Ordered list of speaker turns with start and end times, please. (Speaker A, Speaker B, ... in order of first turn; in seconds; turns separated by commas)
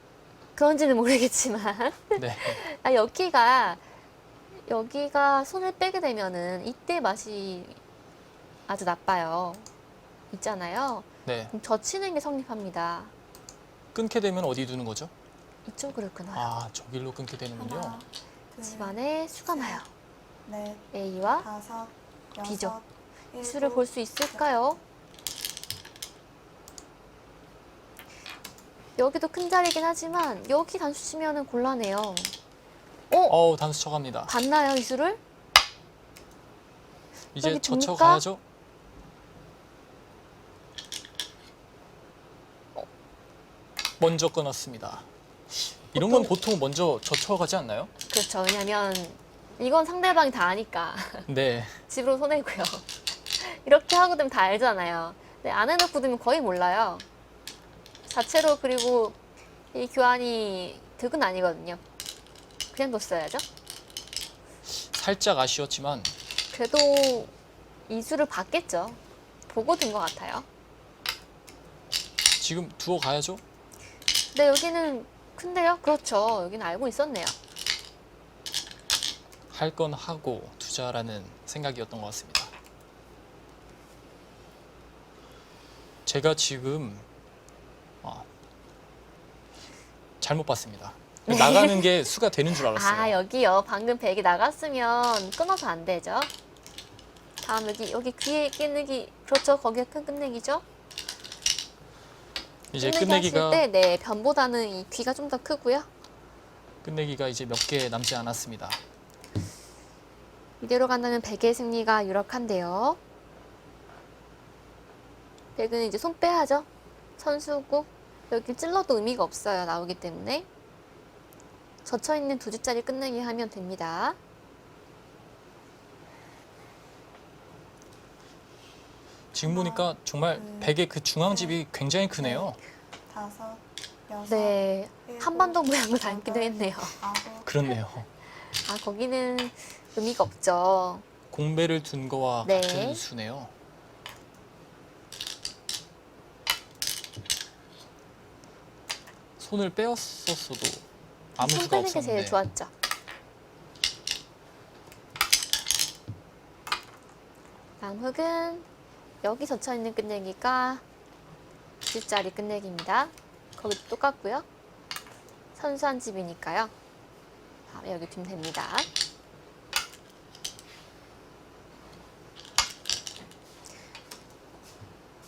Speaker A: 0.6-3.8, Speaker B: 2.1-2.6, Speaker A: 4.5-7.8, Speaker A: 8.7-9.7, Speaker A: 10.3-13.1, Speaker B: 11.3-11.5, Speaker B: 13.9-15.1, Speaker A: 15.7-16.5, Speaker B: 16.3-18.0, Speaker C: 17.6-19.0, Speaker A: 18.6-19.9, Speaker C: 20.5-20.9, Speaker A: 20.9-21.5, Speaker C: 21.4-24.4, Speaker A: 22.4-22.8, Speaker A: 23.4-24.8, Speaker A: 29.0-32.3, Speaker A: 33.1-33.4, Speaker B: 33.3-34.3, Speaker A: 34.3-35.2, Speaker A: 37.4-38.2, Speaker B: 37.4-38.4, Speaker B: 44.0-47.9, Speaker A: 45.9-46.4, Speaker A: 48.1-51.3, Speaker B: 51.3-51.8, Speaker A: 51.9-52.9, Speaker A: 53.4-57.0, Speaker A: 58.1-59.2, Speaker A: 59.7-61.8, Speaker A: 62.7-63.5, Speaker B: 64.7-66.1, Speaker A: 66.5-67.3, Speaker A: 67.9-70.5, Speaker B: 72.4-73.4, Speaker A: 74.3-77.4, Speaker B: 79.5-82.5, Speaker B: 86.1-87.1, Speaker B: 88.0-88.3, Speaker B: 90.2-93.2, Speaker A: 91.3-96.3, Speaker A: 97.4-100.6, Speaker B: 102.7-103.7, Speaker A: 102.8-105.9, Speaker B: 106.8-108.8, Speaker A: 110.6-113.0, Speaker A: 115.6-120.5, Speaker A: 121.8-124.2, Speaker B: 129.3-132.6, Speaker C: 129.4-130.7, Speaker C: 131.3-131.6, Speaker C: 132.2-132.5, Speaker C: 133.1-137.5, Speaker A: 134.3-137.0, Speaker B: 137.4-138.1, Speaker A: 138.6-141.1, Speaker B: 141.3-143.5, Speaker A: 142.4-143.0, Speaker B: 149.4-150.8, Speaker B: 151.4-152.4, Speaker A: 151.4-152.7, Speaker A: 157.8-158.7, Speaker A: 159.2-160.8, Speaker A: 161.8-164.4, Speaker A: 165.6-166.7, Speaker A: 167.7-168.9